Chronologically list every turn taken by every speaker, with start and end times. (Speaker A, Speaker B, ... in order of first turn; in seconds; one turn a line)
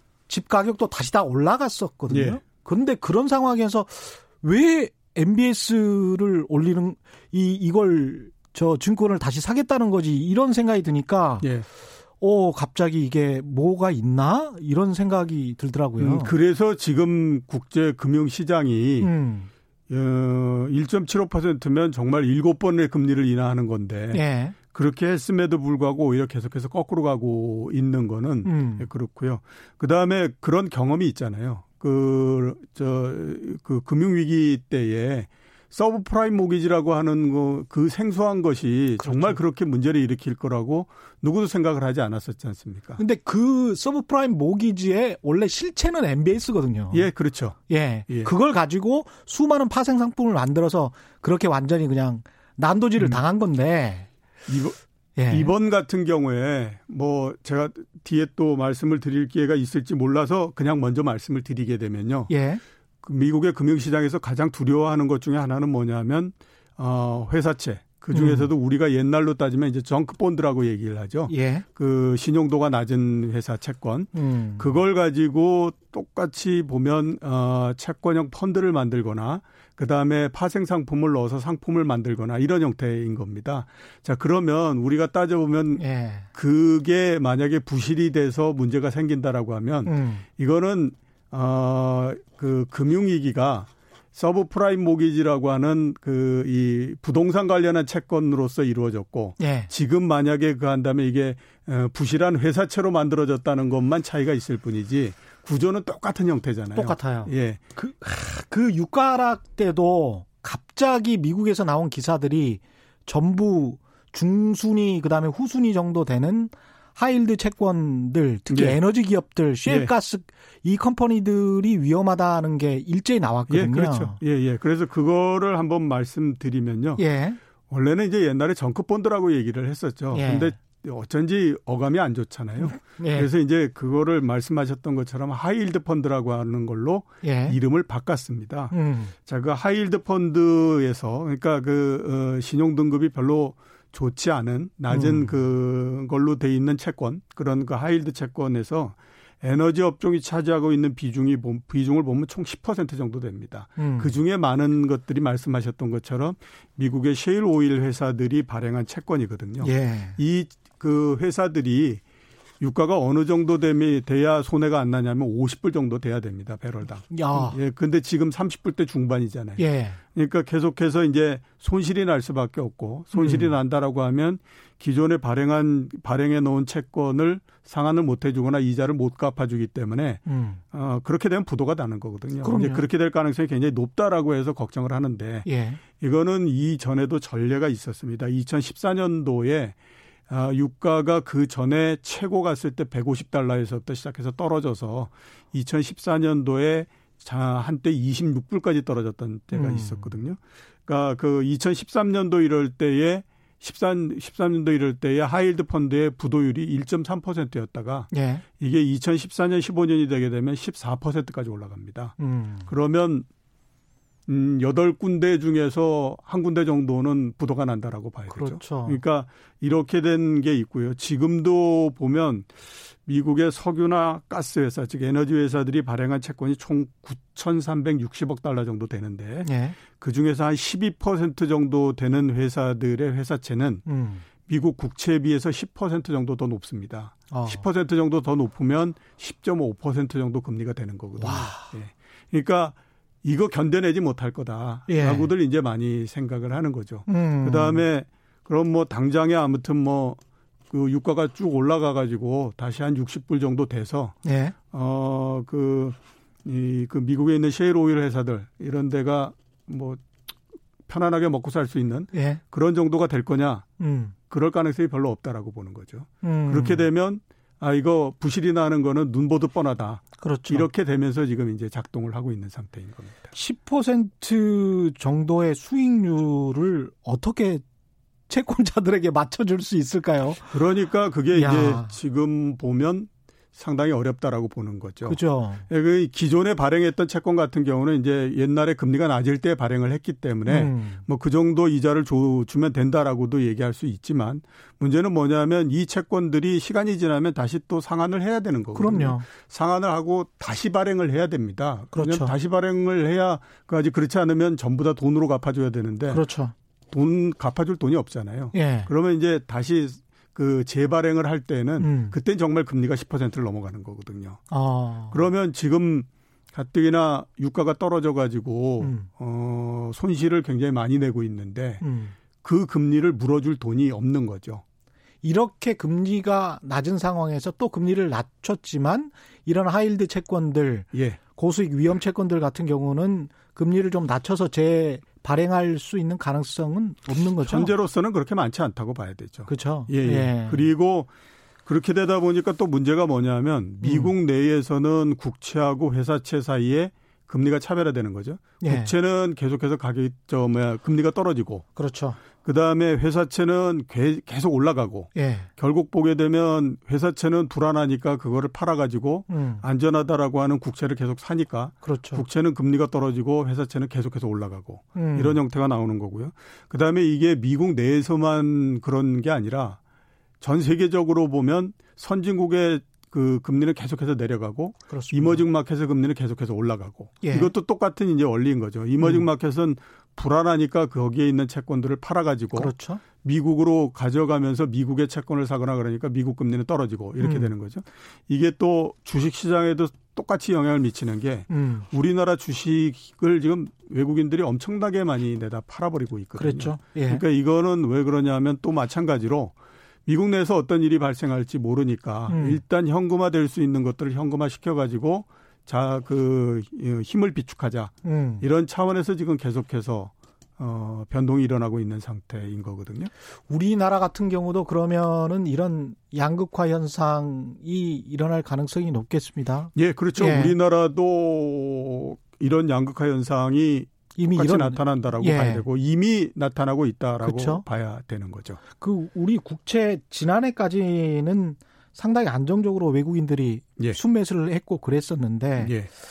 Speaker A: 0.3-11.5
Speaker B: 2.1-2.4
Speaker A: 12.2-16.3
Speaker B: 16.0-19.1
Speaker A: 19.0-19.5
Speaker B: 19.9-43.0
Speaker A: 24.1-24.6
Speaker A: 28.4-28.9
Speaker A: 39.0-39.4
Speaker A: 43.0-47.1
Speaker B: 46.9-48.3
Speaker A: 47.7-54.1
Speaker B: 54.5-54.8
Speaker A: 55.2-55.5
Speaker B: 55.3-62.3
Speaker A: 62.3-62.6
Speaker B: 63.0-85.8
Speaker A: 68.1-68.5
Speaker A: 71.3-71.7
Speaker A: 74.1-74.7
Speaker A: 85.8-86.3
Speaker B: 86.3-107.6
Speaker A: 89.9-90.2
Speaker A: 99.4-99.7
Speaker A: 106.8-124.2
Speaker B: 118.5-118.8
Speaker B: 119.7-119.9
Speaker B: 123.5-127.0
Speaker A: 127.0-127.4
Speaker B: 127.7-162.0
Speaker A: 130.1-130.6
Speaker A: 132.6-133.3
Speaker A: 137.2-137.6
Speaker A: 138.7-139.1
Speaker A: 144.9-145.3
Speaker A: 153.8-154.2
Speaker A: 159.6-160.2
Speaker B: 162.6-169.6
Speaker A: 167.1-167.6
Speaker A: 169.6-170.0
Speaker B: 170.1-189.8
Speaker A: 173.1-173.5
Speaker A: 180.3-180.6
Speaker A: 182.4-182.8
Speaker A: 185.5-185.8
Speaker B: 190.3-212.2
Speaker A: 199.5-200.1
Speaker A: 208.1-208.4
Speaker A: 212.2-212.7
Speaker B: 212.7-213.3
Speaker B: 214.3-222.5
Speaker A: 218.3-219.0
Speaker B: 223.1-233.8
Speaker A: 229.4-229.8
Speaker A: 233.9-234.2
Speaker B: 234.4-250.2
Speaker A: 237.3-237.6
Speaker A: 241.2-241.7
Speaker A: 244.9-245.3
Speaker A: 247.1-247.8
Speaker B: 250.7-254.2
Speaker A: 254.2-254.6
Speaker B: 254.7-260.0
Speaker B: 260.9-263.7
Speaker A: 262.1-262.4
Speaker A: 263.8-264.1
Speaker B: 264.3-273.3
Speaker A: 266.2-266.9
Speaker A: 270.2-270.7
Speaker A: 273.3-277.6
Speaker A: 278.3-280.5
Speaker B: 280.5-306.2
Speaker A: 281.3-281.9
Speaker A: 285.1-285.6
Speaker A: 290.5-291.0
Speaker A: 298.8-299.3
Speaker A: 301.9-302.3
Speaker A: 306.1-306.5
Speaker B: 306.9-314.4
Speaker A: 308.5-308.9
Speaker A: 311.8-312.1
Speaker A: 314.5-315.2
Speaker B: 315.1-321.8
Speaker A: 318.8-319.1
Speaker A: 321.8-322.1
Speaker B: 322.4-324.6
Speaker A: 325.2-337.7
Speaker B: 330.9-331.2
Speaker B: 337.4-341.1
Speaker A: 339.5-340.7
Speaker B: 341.6-351.6
Speaker A: 343.8-344.1
Speaker A: 348.6-348.9
Speaker A: 351.8-352.2
Speaker B: 352.4-369.8
Speaker A: 355.1-355.5
Speaker A: 359.3-359.6
Speaker A: 361.8-362.2
Speaker A: 364.9-365.4
Speaker B: 370.4-399.5
Speaker A: 374.9-375.4
Speaker A: 377.2-377.5
Speaker A: 382.6-383.0
Speaker A: 387.2-387.5
Speaker A: 391.5-391.9
Speaker A: 396.4-397.2
Speaker B: 400.1-413.1
Speaker A: 402.3-402.6
Speaker A: 408.0-408.4
Speaker A: 413.5-420.6
Speaker B: 419.8-428.6
Speaker A: 424.2-425.6
Speaker A: 427.2-427.6
Speaker A: 428.8-435.8
Speaker B: 435.6-435.9